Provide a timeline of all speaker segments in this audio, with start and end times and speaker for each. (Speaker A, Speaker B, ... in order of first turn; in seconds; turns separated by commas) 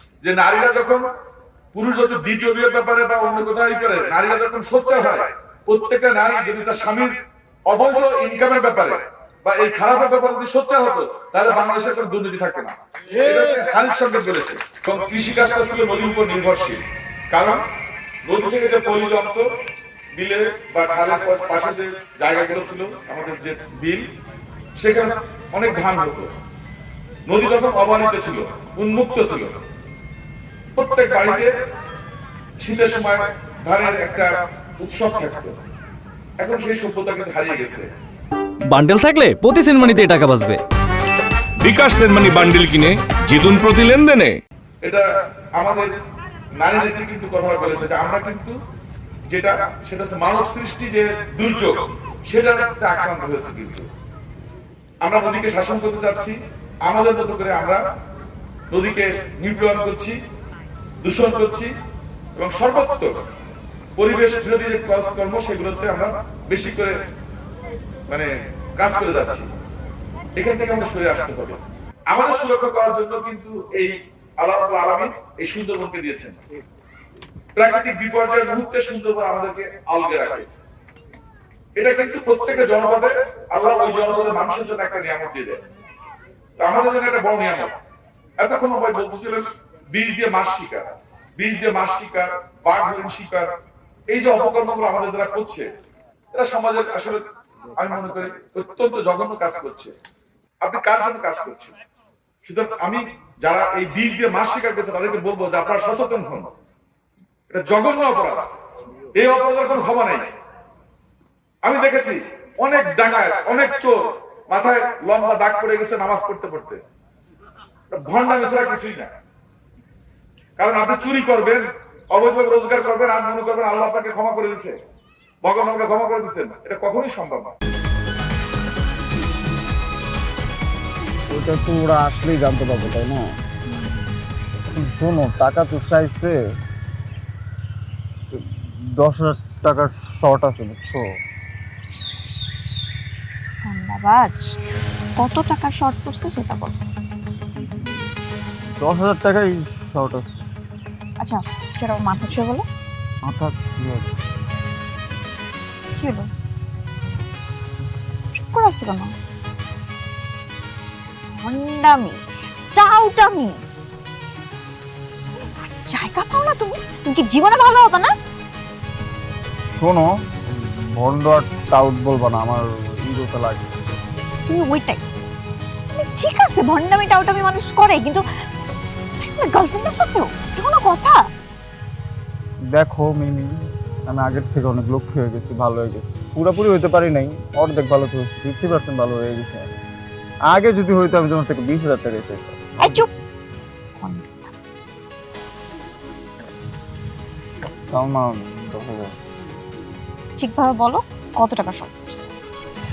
Speaker A: 0.2-1.0, Speaker A: 1.7-7.1, Speaker A: 7.7-17.6, Speaker A: 18.2-19.5, Speaker A: 20.1-24.0, Speaker A: 24.8-26.3, Speaker A: 27.3-29.6, Speaker A: 30.8-31.5, Speaker A: 32.6-34.3, Speaker A: 34.8-35.6, Speaker A: 36.4-37.9, Speaker B: 38.7-40.6, Speaker C: 41.6-44.4, Speaker A: 45.6-45.9, Speaker A: 46.6-48.6, Speaker A: 49.3-53.9, Speaker A: 55.0-57.8, Speaker A: 58.7-60.2, Speaker A: 61.0-61.7, Speaker A: 62.4-63.2, Speaker A: 64.0-67.0, Speaker A: 68.1-69.5, Speaker A: 70.3-76.4, Speaker A: 77.6-80.5, Speaker A: 81.8-85.6, Speaker A: 86.6-87.8, Speaker A: 88.4-93.5, Speaker A: 94.1-95.7, Speaker A: 96.3-97.2, Speaker A: 97.8-99.9, Speaker A: 100.6-101.8, Speaker A: 102.4-106.5, Speaker A: 107.5-108.5, Speaker A: 109.1-110.3, Speaker A: 111.6-116.8, Speaker A: 117.9-119.1, Speaker A: 120.6-124.8, Speaker A: 125.4-127.5, Speaker D: 131.3-133.3, Speaker E: 133.8-134.1, Speaker D: 134.7-136.4, Speaker D: 138.3-141.0, Speaker E: 143.6-144.4, Speaker E: 145.2-146.8, Speaker D: 148.8-150.4, Speaker E: 151.2-152.7, Speaker D: 153.2-154.2, Speaker E: 156.0-156.3, Speaker E: 158.4-159.1, Speaker E: 161.3-162.2, Speaker E: 162.7-163.6, Speaker E: 165.4-168.1, Speaker D: 169.7-173.9, Speaker E: 174.5-175.0, Speaker E: 176.0-178.2, Speaker E: 179.2-181.2, Speaker D: 182.7-183.6, Speaker D: 184.1-189.7, Speaker D: 190.5-193.1, Speaker E: 192.8-193.1, Speaker E: 194.0-194.5, Speaker D: 197.9-199.2, Speaker E: 200.4-202.3